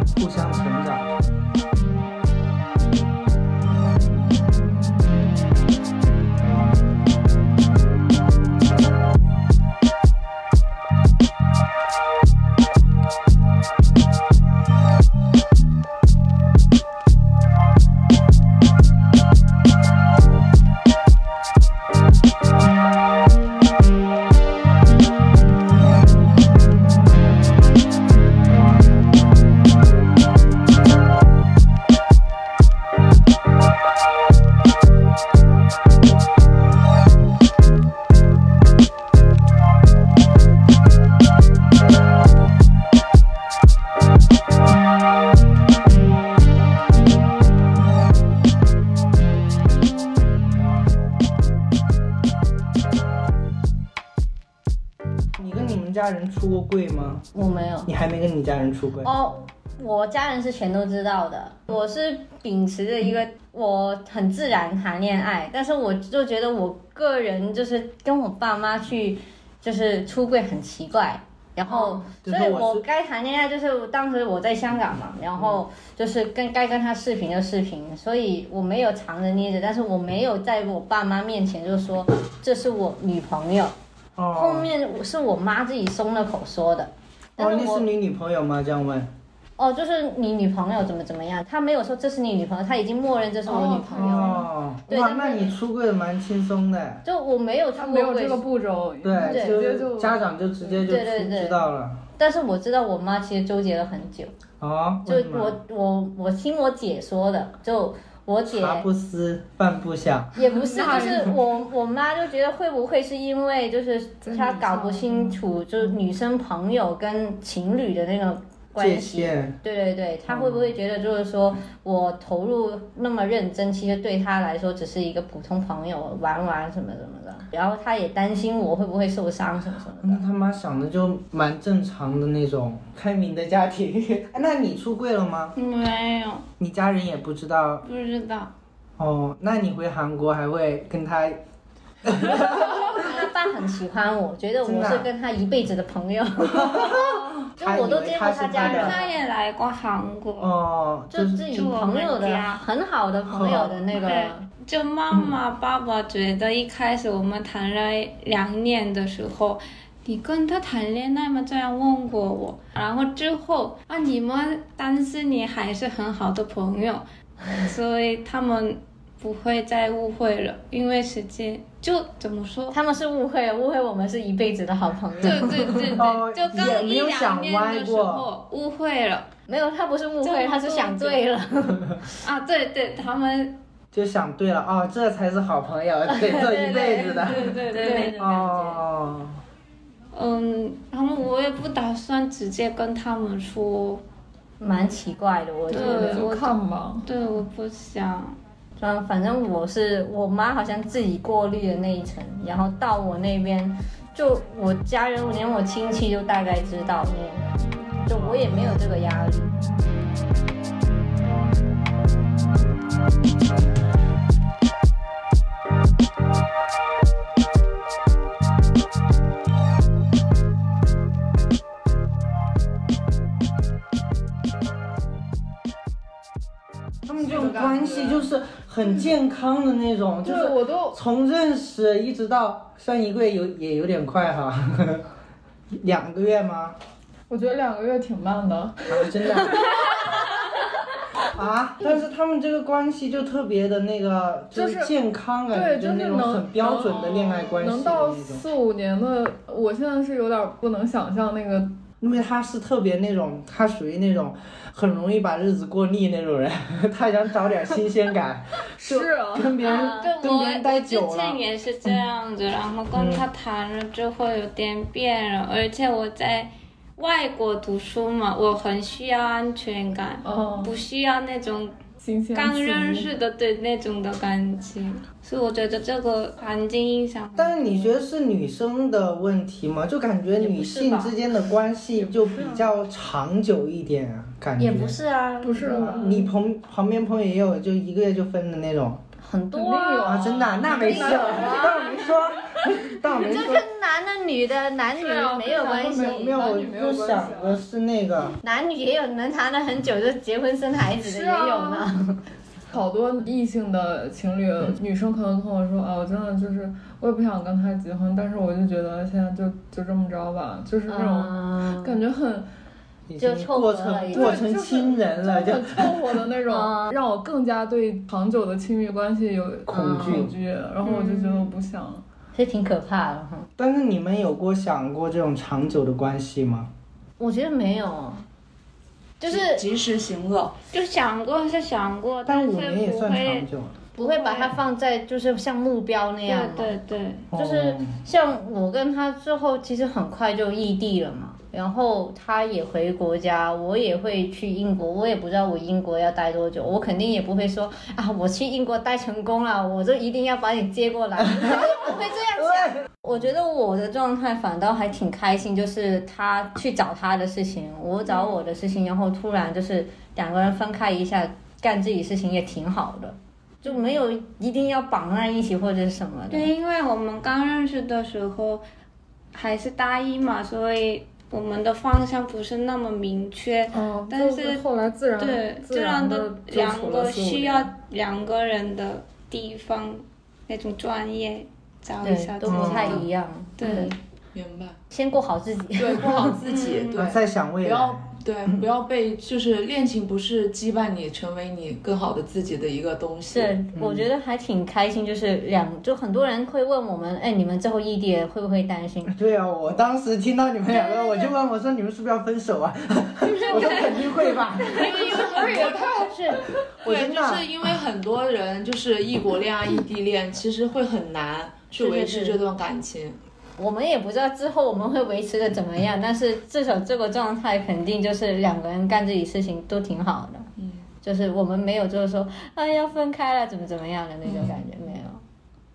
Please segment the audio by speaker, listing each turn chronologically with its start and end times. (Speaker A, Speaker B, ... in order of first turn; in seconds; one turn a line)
Speaker A: 0.2-1.2
Speaker A: 55.4-57.3
Speaker B: 57.3-57.9
Speaker A: 57.9-59.1
Speaker B: 59.0-83.7
Speaker A: 72.2-72.8
Speaker A: 75.3-75.6
Speaker A: 84.2-84.7
Speaker B: 84.3-87.9
Speaker A: 87.4-89.1
Speaker B: 89.6-95.5
Speaker C: 93.5-94.5
Speaker A: 93.9-97.0
Speaker B: 97.0-98.4
Speaker C: 97.7-100.9
Speaker A: 99.0-102.0
Speaker B: 99.2-99.6
Speaker B: 100.8-101.6
Speaker B: 102.2-104.3
Speaker A: 104.6-105.6
Speaker B: 105.0-108.9
Speaker A: 108.5-111.2
Speaker B: 110.3-130.2
Speaker C: 110.4-111.4
Speaker C: 114.2-115.4
Speaker A: 118.8-119.6
Speaker A: 120.3-120.7
Speaker A: 130.0-135.5
Speaker D: 135.6-136.4
Speaker A: 136.6-137.8
Speaker D: 137.8-138.5
Speaker A: 139.0-141.4
Speaker A: 142.0-143.0
Speaker B: 142.6-149.1
Speaker A: 144.6-145.1
Speaker A: 146.5-149.0
Speaker D: 148.6-150.5
Speaker A: 150.4-151.5
Speaker B: 151.1-154.4
Speaker D: 151.4-152.6
Speaker A: 153.3-153.8
Speaker D: 153.9-172.8
Speaker A: 155.1-155.4
Speaker B: 172.7-176.0
Speaker D: 175.2-179.3
Speaker A: 175.9-178.2
Speaker B: 179.5-182.0
Speaker D: 180.2-181.2
Speaker D: 182.2-183.6
Speaker A: 183.9-189.4
Speaker B: 186.1-188.8
Speaker D: 187.2-188.3
Speaker D: 190.1-194.0
Speaker B: 194.6-196.2
Speaker D: 195.7-198.4
Speaker C: 195.7-197.1
Speaker B: 198.8-209.6
Speaker A: 208.1-208.6
Speaker A: 227.1-235.1
Speaker E: 227.6-228.0
Speaker C: 230.2-231.0
Speaker A: 235.8-236.8
Speaker C: 237.3-240.2
Speaker A: 238.9-239.7
Speaker A: 241.3-248.4
Speaker C: 244.5-244.9
Speaker C: 245.5-251.8
Speaker A: 252.0-261.9
Speaker C: 258.8-259.6
Speaker B: 259.6-260.1
Speaker D: 259.6-271.8
Speaker A: 262.9-263.3
Speaker C: 270.2-270.8
Speaker C: 272.0-273.1
Speaker D: 272.3-277.9
Speaker A: 277.4-285.0
Speaker B: 280.4-281.1
Speaker C: 281.9-282.7
Speaker B: 284.6-286.0
Speaker C: 285.4-286.3
Speaker A: 285.7-289.0
Speaker B: 289.2-291.8
Speaker C: 289.5-292.0
Speaker A: 290.0-293.6
Speaker B: 293.2-296.4
Speaker C: 294.9-297.6
Speaker A: 295.8-298.4
Speaker B: 298.4-302.2
Speaker C: 301.0-301.9
Speaker C: 302.7-312.5
Speaker B: 310.9-312.0
Speaker A: 313.1-316.2
Speaker B: 313.2-314.4
Speaker C: 314.1-322.0
Speaker B: 316.5-316.9
Speaker A: 319.7-320.3
Speaker B: 319.7-320.2
Speaker D: 320.8-321.5
Speaker B: 322.3-323.5
Speaker A: 323.6-326.7
Speaker B: 327.2-328.2
Speaker B: 329.2-329.6
Speaker E: 329.3-330.6
Speaker D: 330.7-333.5
Speaker A: 332.2-333.8
Speaker B: 334.0-336.7
Speaker D: 334.0-334.5
Speaker D: 336.2-337.3
Speaker A: 337.3-337.9
Speaker B: 337.3-366.5
Speaker D: 358.1-358.4
Speaker D: 366.3-368.6
Speaker D: 369.3-374.6
Speaker C: 373.7-377.7
Speaker D: 375.2-383.0
Speaker B: 382.0-383.9
Speaker A: 382.4-383.1
Speaker D: 383.6-383.9
Speaker E: 383.6-384.8
Speaker B: 384.9-386.4
Speaker E: 385.8-393.5
Speaker D: 386.4-387.1
Speaker A: 386.9-388.6
Speaker B: 393.3-399.1
Speaker A: 393.7-394.1
Speaker A: 399.1-404.9
Speaker D: 403.3-404.0
Speaker E: 404.7-406.1
Speaker C: 404.7-406.4
Speaker B: 405.0-406.4
Speaker A: 406.8-407.5
Speaker E: 406.8-413.2
Speaker B: 411.8-412.4
Speaker B: 413.6-420.5
Speaker E: 420.6-420.8
Speaker B: 421.0-425.2
Speaker E: 424.2-424.5